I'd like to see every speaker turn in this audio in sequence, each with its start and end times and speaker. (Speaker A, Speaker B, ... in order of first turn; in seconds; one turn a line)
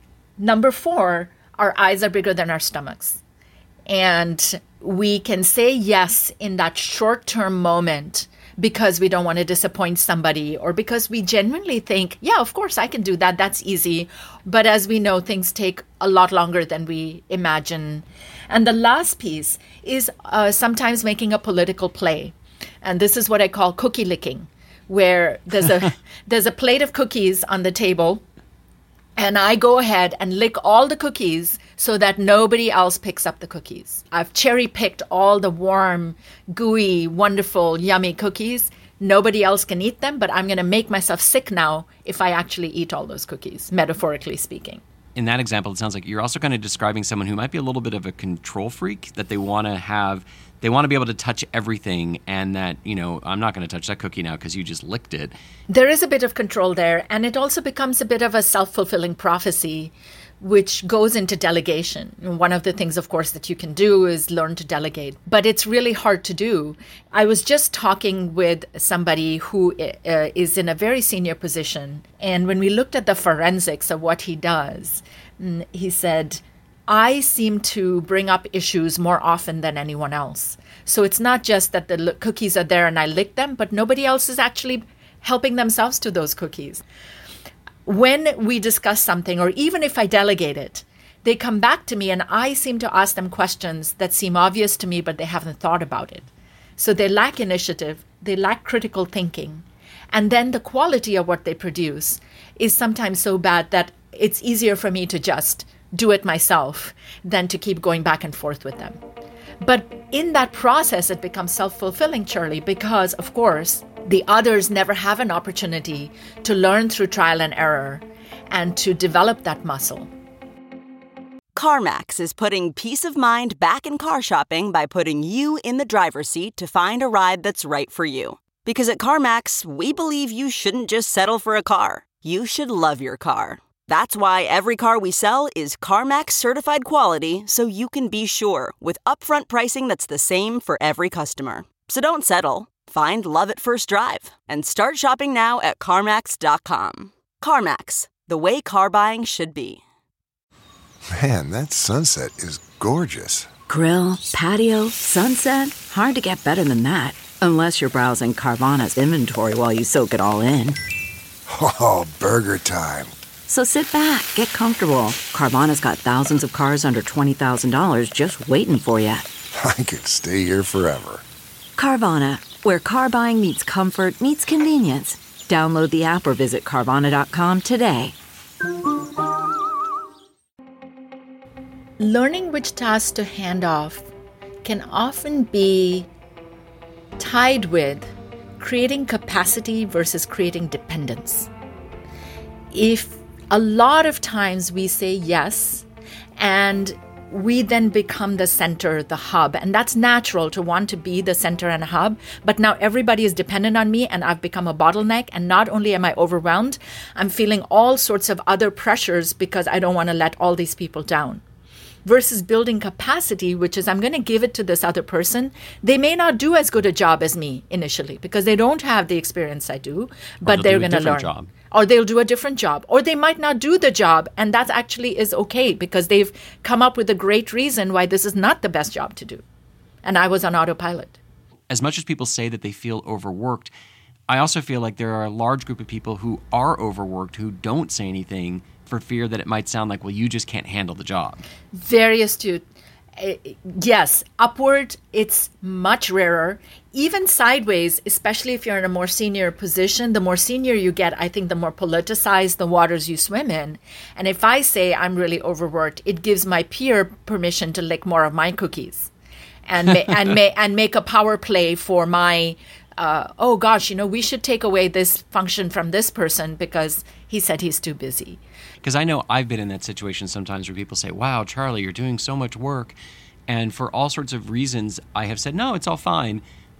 Speaker A: 0.4-3.2
Speaker A: 3.9-28.2
Speaker A: 29.2-44.8
Speaker B: 45.1-55.3
Speaker A: 55.7-86.8
Speaker A: 87.8-109.0
Speaker A: 109.6-120.1
Speaker C: 121.6-149.8
Speaker D: 151.1-153.5
Speaker E: 153.7-160.8
Speaker D: 161.5-163.1
Speaker E: 163.5-169.3
Speaker D: 169.5-171.2
Speaker E: 171.8-178.1
Speaker A: 182.0-184.1
Speaker A: 184.6-186.1
Speaker A: 187.2-191.5
Speaker A: 192.7-195.8
Speaker A: 196.4-211.4
Speaker A: 212.0-229.4
Speaker B: 220.4-221.5
Speaker A: 230.0-231.2
Speaker B: 231.7-233.7
Speaker B: 234.3-241.4
Speaker A: 241.7-242.6
Speaker A: 243.2-259.1
Speaker A: 259.7-268.4
Speaker B: 268.8-273.0
Speaker B: 273.5-276.4